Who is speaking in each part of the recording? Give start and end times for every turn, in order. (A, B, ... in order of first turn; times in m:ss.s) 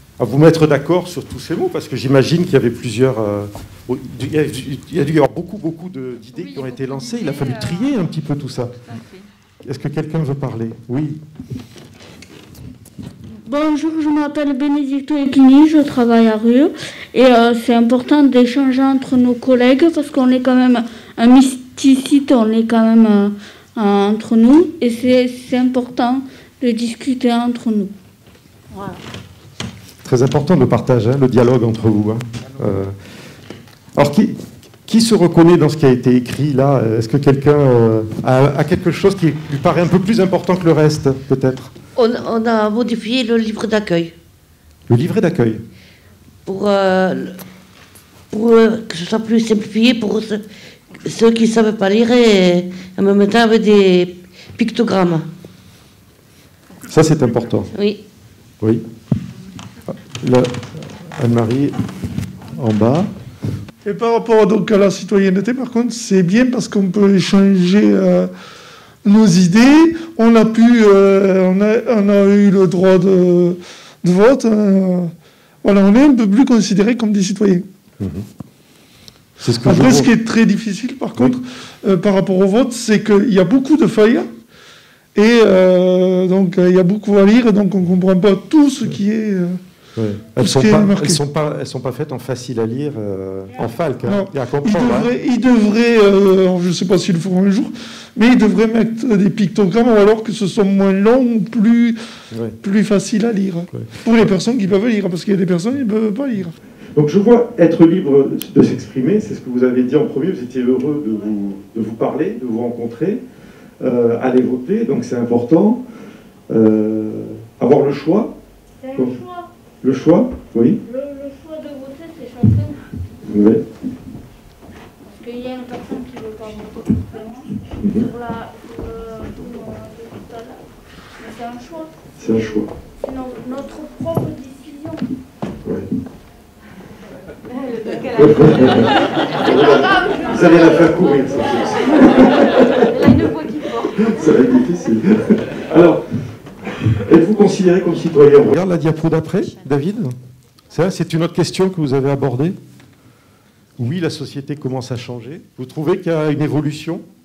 0:00.2-0:08.8 A
0:09.6-0:11.2 A
0:13.4-0:27.9 B
0:30.0-0:32.9 A
0:33.9-0:34.4 A
0:34.9-0:41.7 A
0:42.0-0:44.1 C
0:44.9-0:45.6 A
0:46.5-0:47.4 C
0:48.3-0:50.4 C
0:51.0-0:55.2 C
0:56.9-0:57.7 A
1:00.2-1:00.5 A
1:01.2-1:01.8 A
1:02.6-1:03.1 A
1:03.8-1:08.3 D
1:09.0-1:15.1 D
1:15.6-1:17.6 D
1:18.0-1:18.2 A
1:19.4-1:20.1 A
1:19.6-1:24.3 D
1:25.1-1:29.6 D
1:30.0-1:35.1 A
1:30.4-1:31.2 D
1:34.0-1:42.0 D
1:42.6-1:46.5 D
1:43.7-1:44.2 A
1:46.9-1:53.2 A
1:53.8-1:55.8 A
1:56.5-1:58.3 A
1:58.9-1:59.2 A
1:58.9-1:59.4 B
1:59.8-2:00.8 A
2:00.9-2:02.7 B
2:03.2-2:03.6 A
2:05.1-2:07.5 B
2:07.8-2:08.1 A
2:08.1-2:10.6 B
2:11.3-2:11.8 B
2:12.2-2:12.7 A
2:13.1-2:14.9 B
2:18.1-2:26.0 A
2:27.1-2:30.1 A
2:30.7-2:32.6 A
2:33.8-2:37.0 A